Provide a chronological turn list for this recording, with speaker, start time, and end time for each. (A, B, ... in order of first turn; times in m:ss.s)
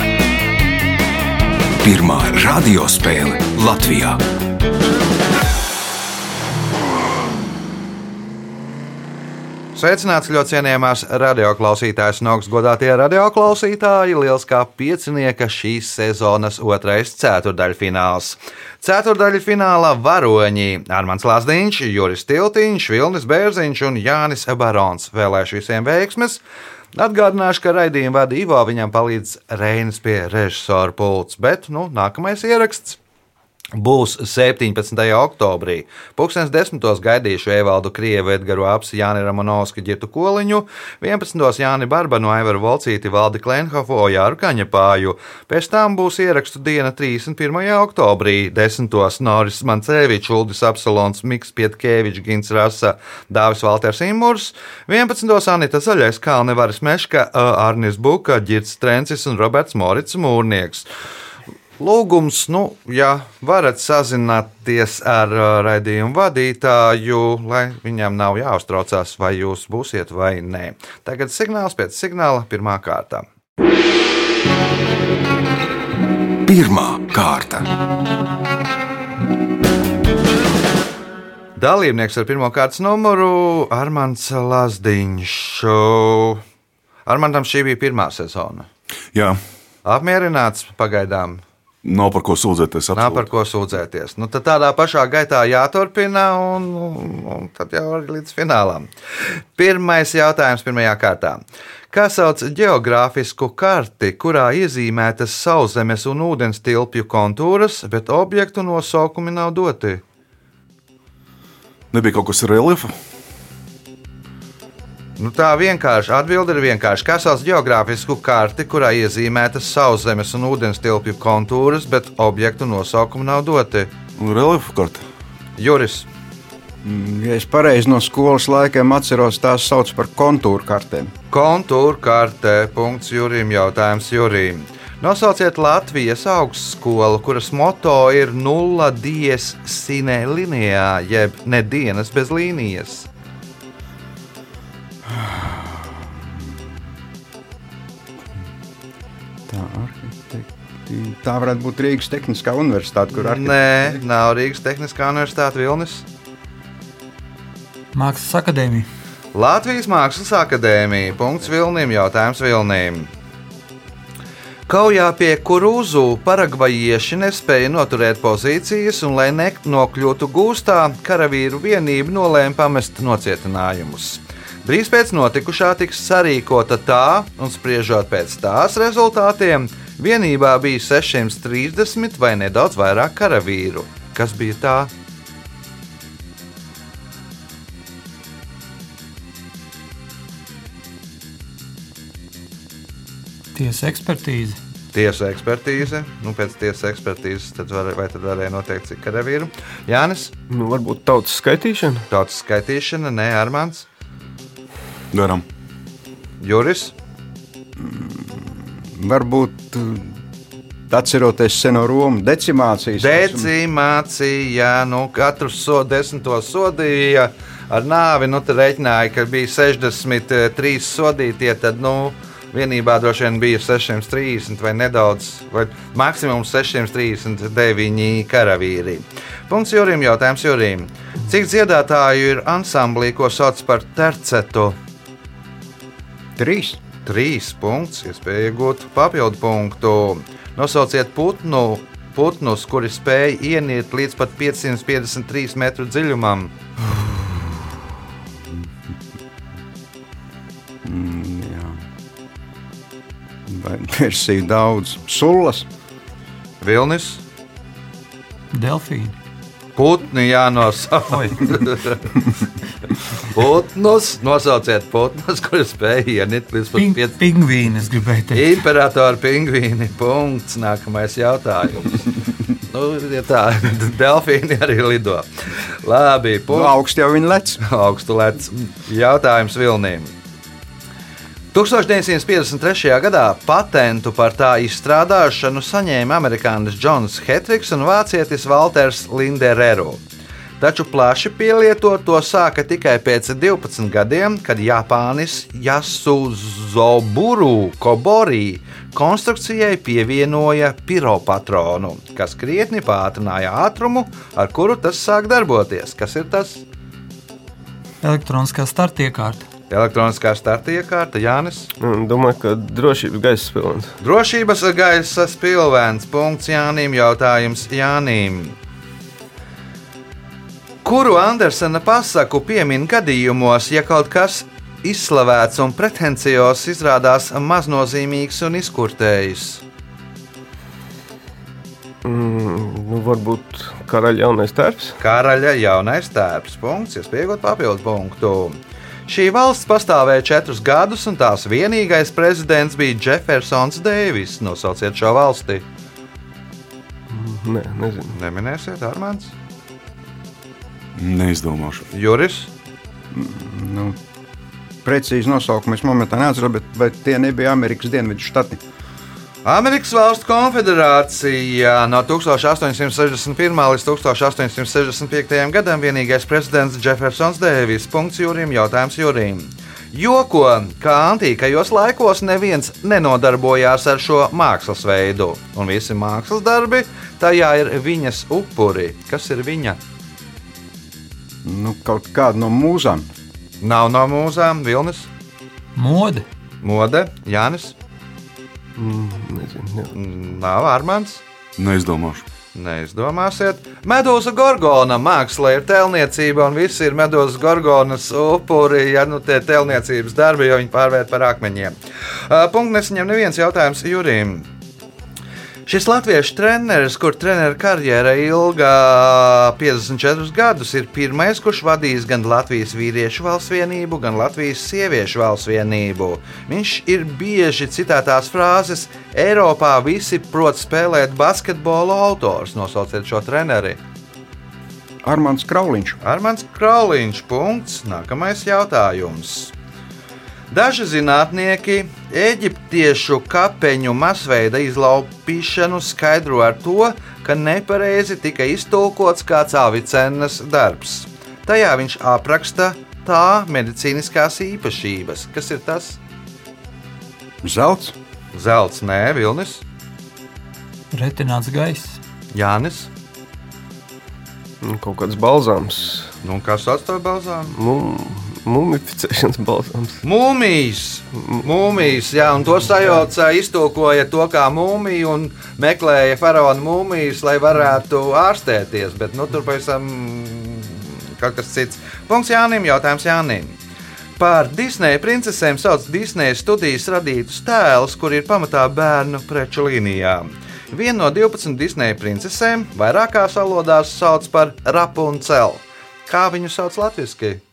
0:01.8-0:04.2 A
0:09.8-0:26.4 B
0:26.9-0:33.0 B
0:33.7-1:00.9 B
1:01.8-1:13.2 B
1:16.5-1:17.7 A
1:21.6-1:26.4 B
1:27.1-1:28.7 B
1:29.1-1:29.4 C
1:29.8-1:31.4 B
1:31.8-1:33.3 C
1:32.9-1:38.9 B
1:39.6-1:50.0 B
1:51.9-1:52.9 C
1:55.2-2:03.9 B
2:04.2-2:05.0 C
2:05.6-2:06.1 B
2:06.8-2:11.1 D
2:11.3-2:23.1 B
2:25.0-2:26.6 D
2:29.5-2:34.0 D
2:33.1-2:36.0 B
2:37.9-2:38.9 E
2:39.3-2:43.1 B
2:44.7-3:04.9 B
3:13.6-3:14.6 E
3:14.9-3:20.3 B
3:20.5-3:22.1 F
3:22.1-3:23.9 B
3:25.1-3:25.4 C
3:26.4-3:26.9 B
3:27.8-3:30.2 D
3:30.9-3:33.5 D
3:33.0-3:54.8 B
3:56.4-3:56.8 D
3:57.0-4:06.5 B
4:06.8-4:07.8 D
4:10.8-4:11.8 D
4:13.5-4:15.7 D
4:16.6-4:17.2 B
4:18.5-4:19.2 E
4:19.8-4:22.2 B
4:21.1-4:21.6 E
4:23.2-4:27.2 B
4:26.8-4:28.6 E
4:28.3-4:32.1 B
4:32.7-4:36.8 B
4:36.5-4:37.6 D
4:37.6-4:40.1 B
4:41.5-4:50.0 B
4:50.6-5:06.6 B
5:08.0-5:09.5 E
5:09.7-5:11.7 B
5:11.8-5:14.0 F
5:14.0-5:18.6 B
5:20.8-5:29.6 B
5:32.0-5:35.0 F
5:35.0-5:45.6 B
5:47.1-5:48.2 F
5:48.1-5:49.3 B
5:51.0-5:51.9 C
5:51.9-5:52.5 B
5:53.1-5:54.0 D
5:54.8-5:58.6 D
5:59.4-6:19.8 B
6:21.4-6:23.1 D
6:23.6-6:25.1 B
6:25.8-6:26.3 E
6:26.6-6:27.7 B
6:28.8-6:29.9 F
6:29.9-6:31.2 B
6:31.6-6:32.3 C
6:32.5-6:41.8 B
6:42.3-6:44.5 B
6:45.7-7:03.8 B
7:05.0-7:06.0 D
7:06.0-7:09.5 B
7:10.5-7:26.0 B
7:27.4-7:28.0 D
7:28.3-7:29.6 B
7:30.9-7:32.0 E
7:32.3-7:32.9 B
7:34.6-7:36.1 F
7:36.2-7:37.6 B
7:37.5-7:40.0 F
7:40.0-7:53.6 B
7:54.2-8:07.4 B